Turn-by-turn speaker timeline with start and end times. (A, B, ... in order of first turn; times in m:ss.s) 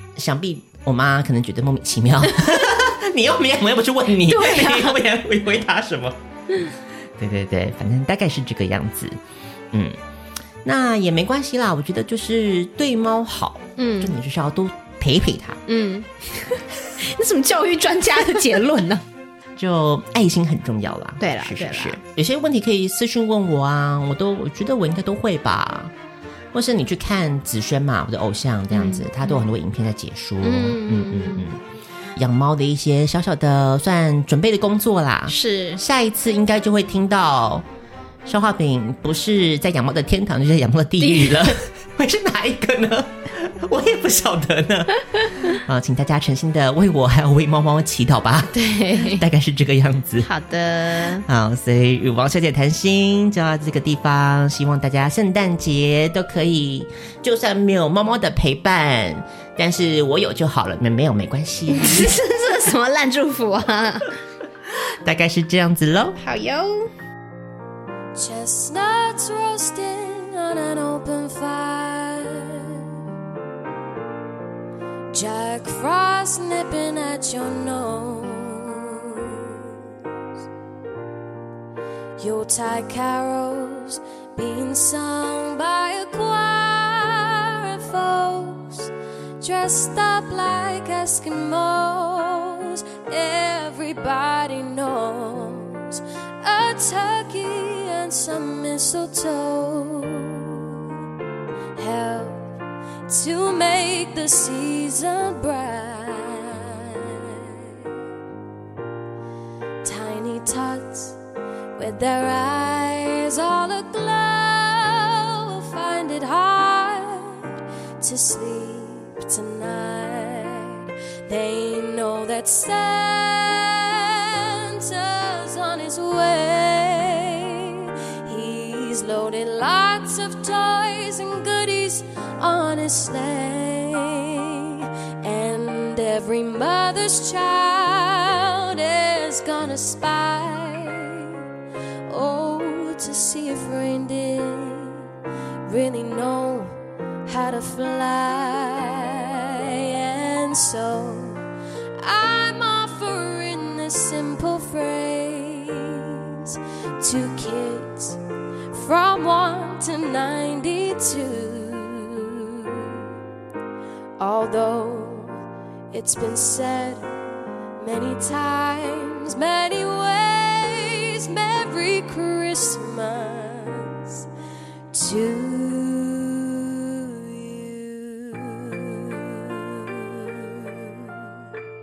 0:00.1-0:06.2 A
0:04.2-0:05.0 B
0:07.2-0:09.2 A
0:09.7-0:10.0 A
0:10.6-0:15.6 A
0:13.8-0:14.2 B
0:15.7-0:19.0 B
0:19.6-0:25.9 A
0:21.2-0:22.0 B
0:26.5-0:31.6 A
0:28.7-0:29.3 B
0:30.4-0:31.5 B
0:32.2-0:37.6 A
0:35.3-0:35.8 B
0:38.2-0:44.9 A
0:41.0-0:41.6 B
0:45.4-0:50.3 A
0:48.5-0:49.2 B
0:50.2-0:51.2 B
0:51.2-1:02.1 A
1:01.7-1:04.1 B
1:05.0-1:06.2 A
1:06.2-1:06.9 B
1:08.2-1:12.8 C
1:15.1-1:19.7 C
1:22.2-1:40.7 C
1:41.8-1:42.5 C
1:43.1-1:47.4 C
1:49.8-1:51.2 C
1:51.8-1:57.5 C
1:58.0-2:21.3 C
2:22.1-2:25.0 C
2:25.6-2:31.4 C
2:32.0-2:38.2 C
2:38.7-2:42.9 C
2:44.2-2:47.1 C
2:47.8-2:54.2 C
2:54.9-3:01.0 C